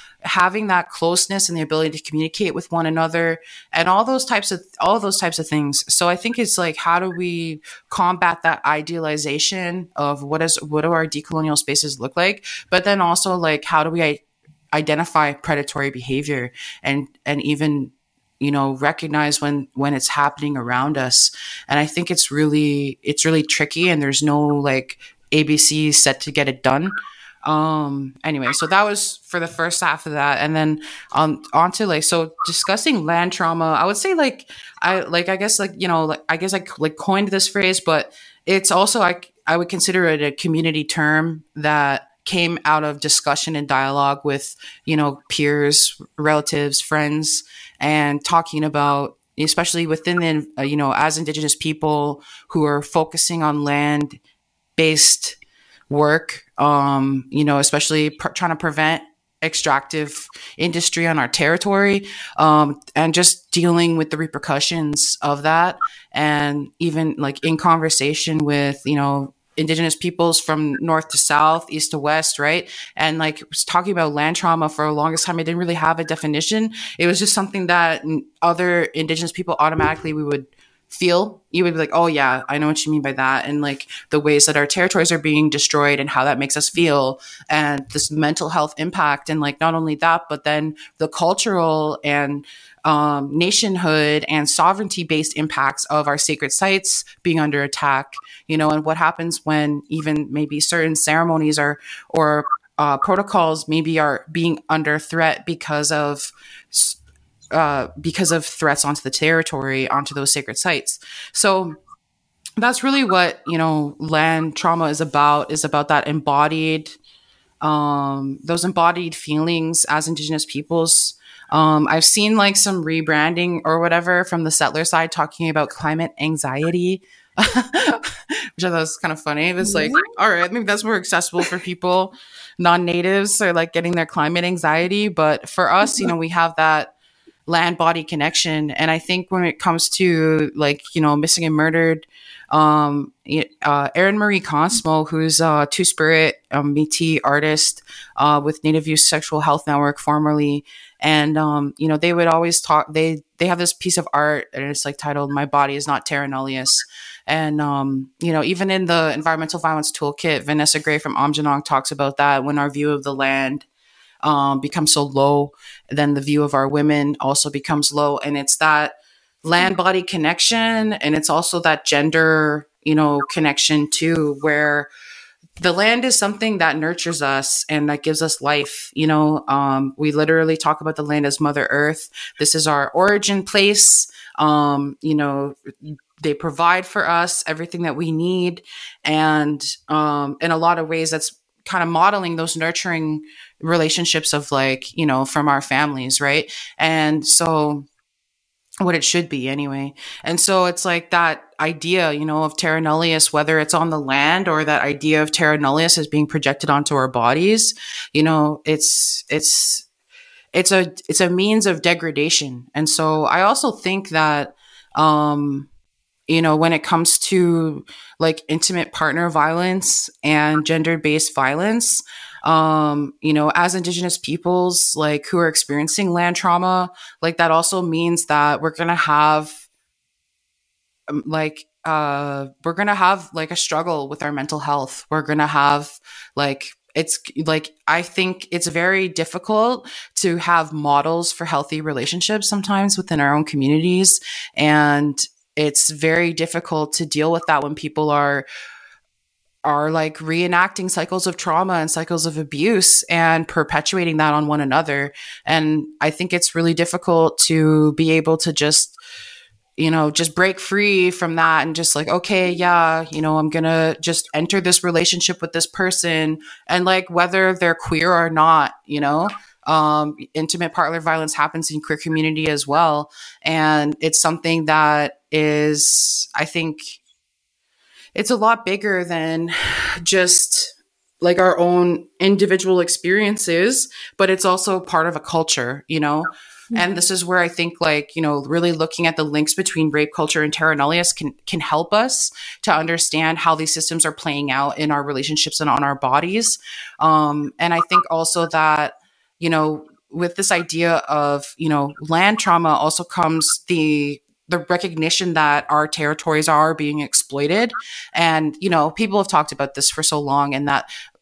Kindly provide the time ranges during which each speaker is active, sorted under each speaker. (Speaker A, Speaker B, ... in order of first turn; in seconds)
Speaker A: 0.2-54.2, 54.8-55.4, 55.9-107.0, 107.5-111.8, 112.6-117.0, 117.6-136.9, 137.5-163.7, 164.2-174.9, 175.6-197.9, 198.8-209.8, 210.5-215.7, 216.3-229.6, 231.1-248.4, 249.6-259.0, 259.8-277.0, 278.1-310.9